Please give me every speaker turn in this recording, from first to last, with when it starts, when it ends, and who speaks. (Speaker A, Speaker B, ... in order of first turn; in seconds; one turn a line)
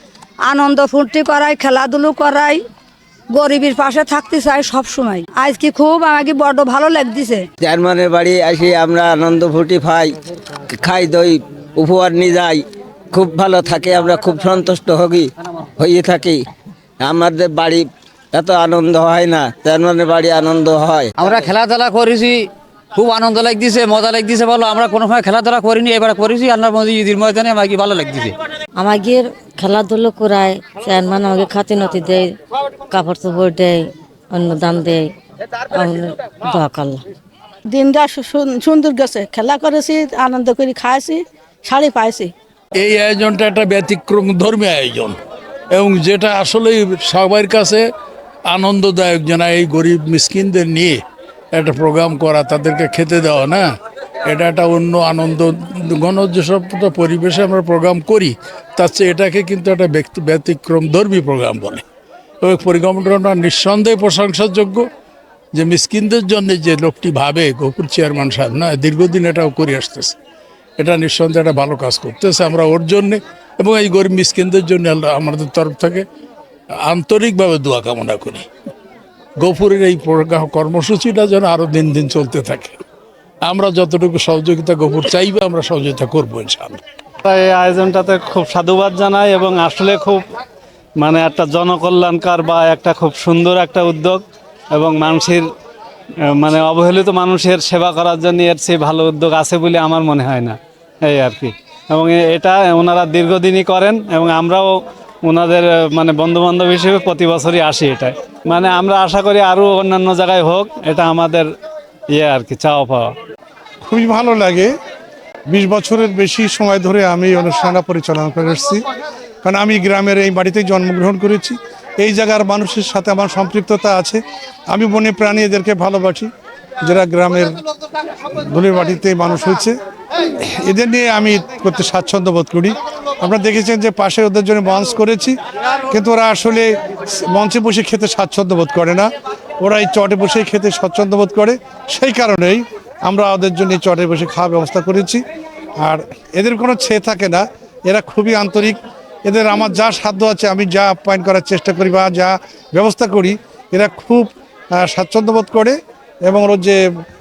Speaker A: 0.5-2.6
Speaker A: 3.3-7.4
Speaker B: 7.6-10.1
Speaker B: 10.7-12.6
Speaker B: 13.1-16.4
Speaker B: 17.0-21.1
Speaker C: 21.2-28.3
Speaker D: 28.8-32.3
Speaker D: 32.9-35.1
Speaker D: 35.7-37.0
Speaker E: 37.7-41.0
Speaker F: 42.7-45.2
Speaker F: 45.7-47.9
Speaker F: 48.5-53.6
Speaker F: 54.2-61.8
Speaker F: 62.4-64.8
Speaker F: 65.5-70.2
Speaker F: 70.8-76.0
Speaker F: 76.8-78.5
Speaker F: 79.4-82.8
Speaker F: 83.4-86.8
Speaker G: 87.2-90.2
Speaker G: 91.0-94.2
Speaker G: 94.7-95.4
Speaker G: 96.4-104.7
Speaker G: 105.2-111.5
Speaker G: 112.1-113.1
Speaker H: 113.8-114.7
Speaker H: 115.5-118.8
Speaker H: 119.4-124.2
Speaker H: 124.7-126.3
Speaker H: 126.8-127.5
Speaker H: 128.3-135.4
Speaker H: 135.9-145.2
Speaker H: 145.8-156.8